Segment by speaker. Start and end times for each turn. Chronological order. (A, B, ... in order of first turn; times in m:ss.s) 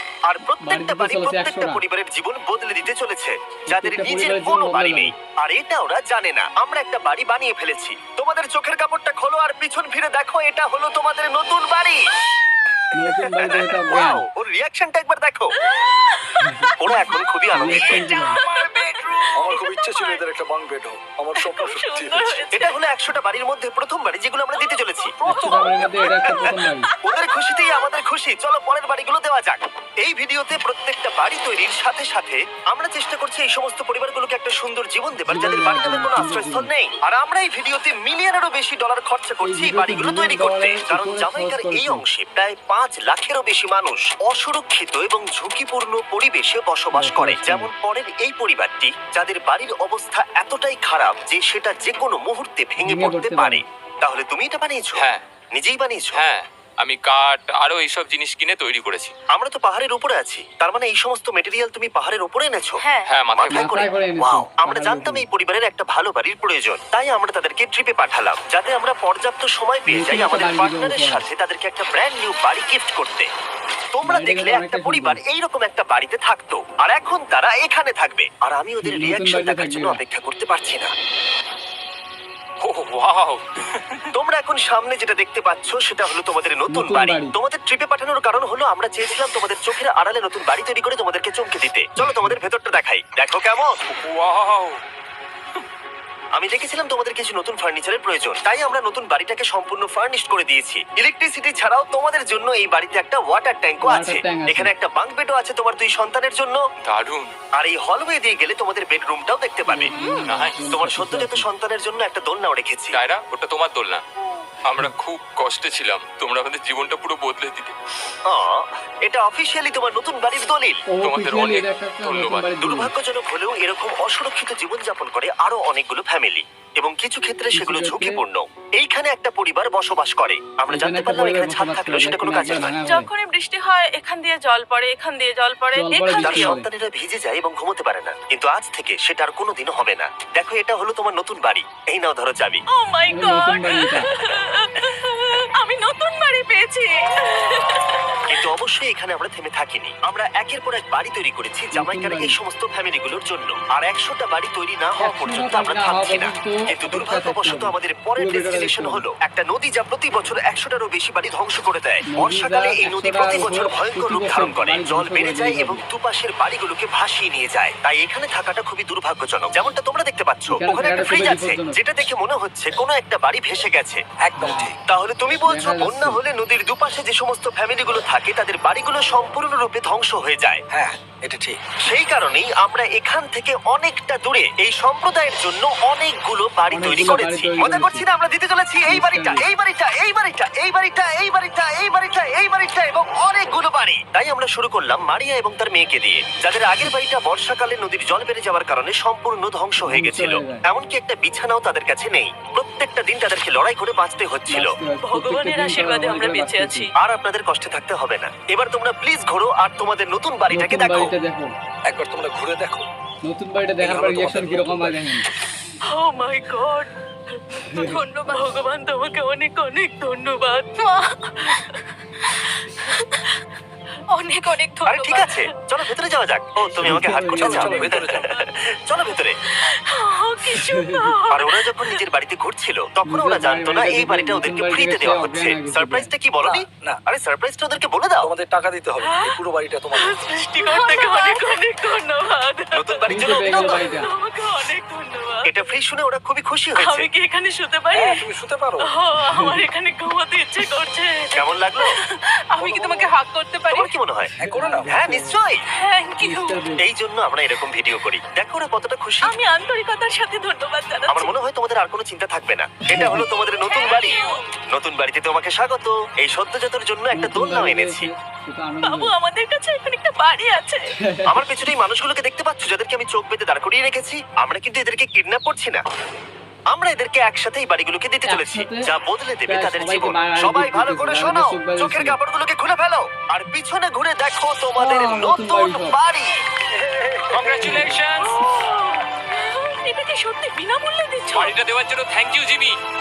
0:00.3-0:12.0 A
0:00.6-0:01.8 B
0:03.7-0:05.1 B
0:12.9-0:14.2 B
0:13.3-0:15.5 A
0:15.7-0:16.4 C
0:16.4-0:16.7 B
0:16.8-0:18.1 A
0:17.5-0:18.4 B
0:17.7-0:20.2 C
0:18.4-0:22.4 D
0:21.4-0:22.8 C
0:22.5-0:26.4 A
0:25.2-0:26.9 B
0:25.3-0:25.9 D
0:27.0-0:56.2 A
0:27.1-0:27.8 C
0:35.2-0:36.7 B
0:39.4-0:42.0 B
0:46.9-0:47.7 B
0:52.8-0:53.6 B
0:54.9-0:55.2 E
0:56.1-0:59.1 E
0:59.3-1:02.8 A
1:02.8-1:03.1 C
1:03.0-1:03.6 E
1:03.3-1:13.3 A
1:03.5-1:05.2 B
1:09.9-1:11.2 B
1:13.9-1:20.9 A
1:14.0-1:15.2 B
1:18.8-1:20.0 B
1:22.6-1:23.8 E
1:24.1-1:33.8 A
1:26.7-1:27.3 B
1:33.9-1:34.8 E
1:36.4-1:46.6 A
1:43.8-1:44.7 B
1:46.8-1:47.3 E
1:47.6-1:49.9 A
1:49.7-1:51.5 B
1:49.9-1:50.2 C
1:50.2-1:50.6 E
1:50.7-1:53.0 A
1:52.9-1:54.0 E
1:54.6-1:57.7 E
1:58.3-2:00.8 A
2:00.9-2:02.9 B
2:01.0-2:02.5 E
2:02.6-2:12.8 A
2:07.5-2:08.2 B
2:10.7-2:13.1 B
2:12.6-2:16.5 C
2:15.7-2:16.7 B
2:16.2-2:22.6 A
2:22.7-2:28.2 C
2:23.1-2:24.1 B
2:28.3-2:54.0 A
2:31.7-2:32.4 B
2:35.0-2:39.0 B
2:42.1-2:45.8 B
2:50.5-2:51.8 B
2:54.2-2:54.8 D
2:54.4-2:54.7 B
2:54.8-3:00.6 A
2:55.4-2:56.2 B
3:00.7-3:01.6 D
3:01.8-3:24.7 A
3:06.7-3:08.0 B
3:08.9-3:09.4 B
3:19.8-3:20.6 B
3:24.5-3:26.9 B
3:25.0-3:26.9 C
3:27.0-3:31.1 A
3:30.5-3:31.5 B
3:31.9-3:32.9 D
3:33.2-3:35.2 B
3:33.8-3:35.0 D
3:35.9-3:43.3 C
3:37.7-3:38.0 B
3:44.1-3:45.5 C
3:44.8-3:49.4 A
3:46.8-3:48.0 B
3:47.3-3:48.3 D
3:49.7-3:52.0 C
3:50.5-3:51.1 B
3:51.3-3:58.3 A
3:53.0-3:56.1 B
3:56.4-3:57.0 D
3:58.2-4:00.4 D
3:59.9-4:05.7 C
4:02.7-4:03.8 A
4:03.1-4:04.1 B
4:05.4-4:07.1 A
4:06.8-4:08.2 C
4:07.9-4:08.9 D
4:08.9-4:13.9 C
4:09.2-4:09.6 B
4:11.3-4:12.0 A
4:12.6-4:13.1 D
4:13.7-4:14.3 A
4:14.4-4:15.4 B
4:14.4-4:14.9 D
4:14.9-4:15.6 A
4:15.8-4:16.6 C
4:16.2-4:16.8 B
4:16.8-4:19.4 A
4:19.2-4:21.3 C
4:21.1-4:28.1 A
4:22.9-4:23.2 B
4:23.6-4:24.4 C
4:27.1-4:29.1 B
4:28.8-4:30.9 C
4:31.0-4:31.4 B
4:31.3-4:35.8 A
4:36.7-4:46.4 A
4:38.2-4:38.9 B
4:39.4-4:42.2 B
4:44.8-4:46.0 B
4:46.8-4:47.5 D
4:47.3-4:48.4 E
4:47.6-4:48.0 B
4:48.4-4:51.6 C
4:51.3-4:52.8 E